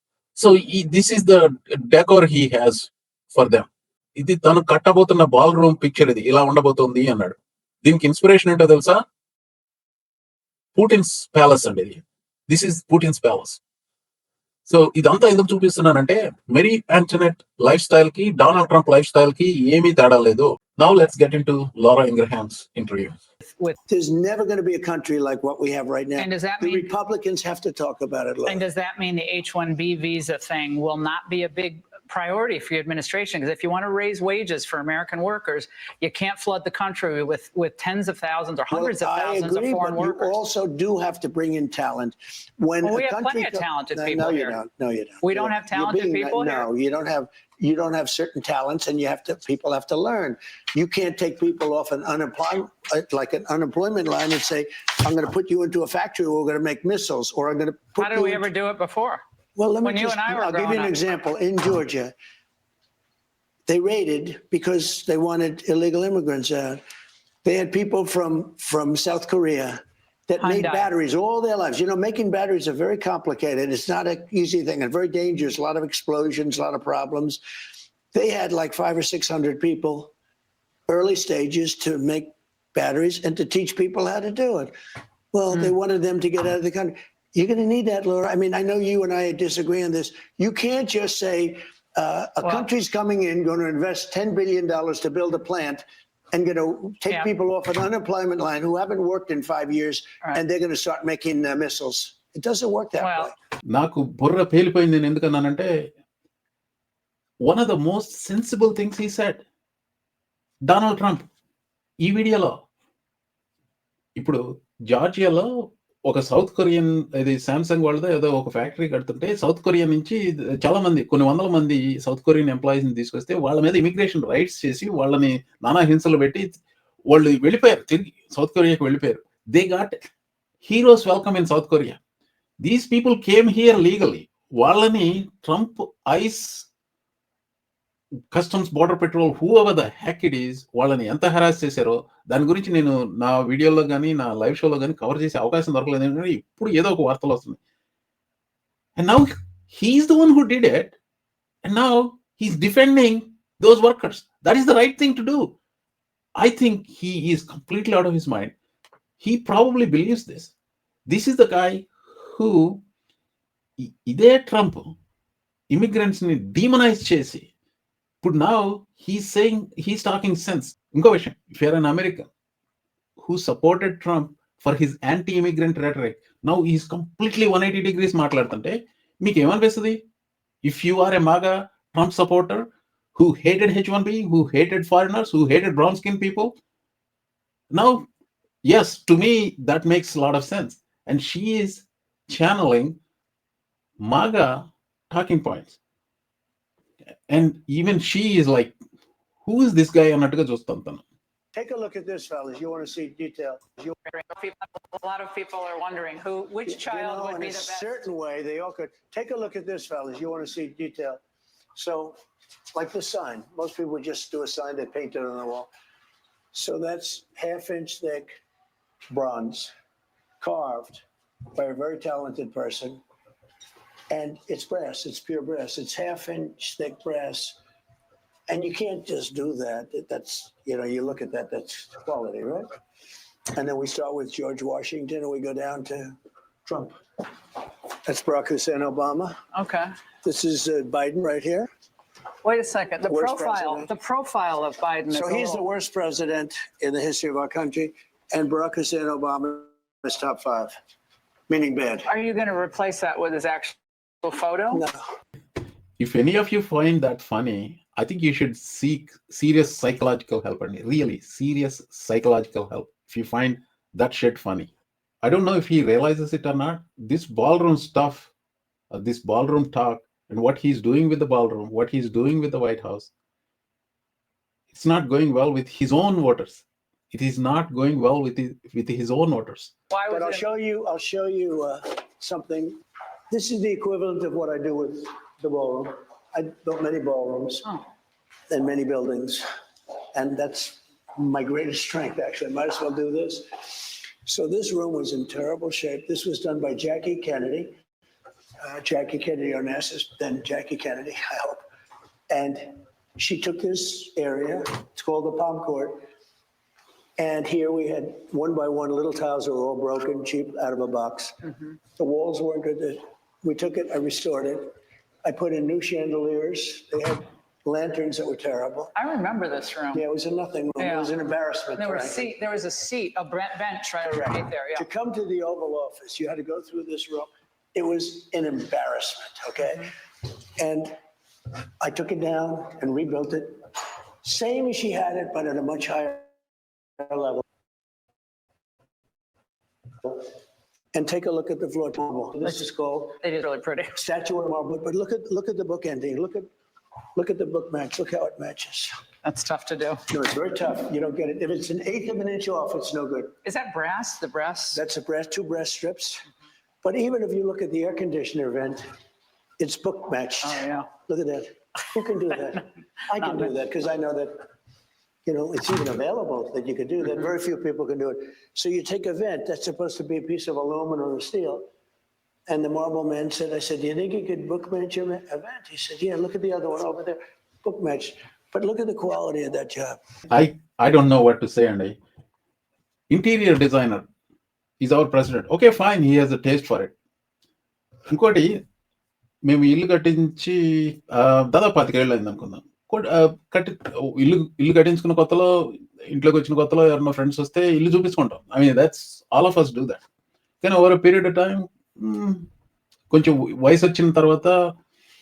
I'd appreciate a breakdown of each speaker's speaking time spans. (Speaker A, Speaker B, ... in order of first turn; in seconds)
Speaker A: 0.4-9.0, 10.8-13.6, 14.7-23.1, 103.7-105.7, 107.4-109.4, 110.7-111.3, 112.0-112.6, 114.2-115.5, 116.1-126.6, 127.1-129.9, 130.6-132.0, 132.6-136.7, 138.3-147.6, 149.0-151.0, 151.7-155.6, 156.4-158.5, 159.2-160.5, 161.1-162.8, 163.8-164.9, 165.7-167.5, 168.2-172.3, 173.2-180.0, 180.6-186.5, 187.7-188.1, 188.7-193.0, 194.1-195.8, 197.3-198.8, 199.4-201.0, 256.0-264.7, 265.2-268.3, 268.9-273.1, 274.7-279.7, 380.3-382.0, 383.1-384.1, 384.8-386.9, 388.1-388.5, 389.5-395.5, 396.1-400.0, 400.6-402.5, 403.1-404.5
Speaker B: 23.5-23.8, 26.2-26.9, 28.5-40.4, 42.8-44.6, 45.2-46.7, 58.0-59.2, 59.8-61.0, 70.4-70.9, 92.4-92.7, 103.0-103.3, 204.1-208.0, 239.5-239.9, 242.4-245.7, 252.1-254.8, 279.9-280.4, 318.9-320.0, 320.8-321.1, 321.8-324.9, 343.2-343.9, 349.2-350.1, 353.4-354.8, 360.4-360.9, 363.2-363.5, 367.0-367.3
Speaker C: 23.9-28.6, 38.7-58.5, 59.5-62.1, 63.7-66.8, 67.4-77.4, 78.1-80.1, 80.9-84.7, 85.3-103.3, 201.5-203.9, 206.7-211.2, 211.8-212.2, 212.7-215.7, 216.5-218.3, 219.1-219.7, 220.4-221.0, 221.6-223.0, 224.1-227.6, 228.5-232.7, 233.6-236.2, 236.7-236.9, 238.1-239.3, 240.2-241.7, 243.1-243.9, 245.1-250.7, 251.5-252.1, 254.7-255.0, 280.1-282.8, 283.3-287.7, 288.5-289.4, 290.1-297.7, 298.6-301.6, 302.3-306.0, 307.2-311.4, 312.0-314.7, 315.2-318.9, 319.9-322.3, 324.0-329.9, 330.6-330.9, 331.8-333.6, 334.2-336.3, 337.0-337.4, 340.9-343.2, 343.9-346.5, 347.2-348.9, 350.1-353.4, 354.7-356.2, 356.8-358.8, 359.6-364.3, 365.2-371.6, 372.5-380.0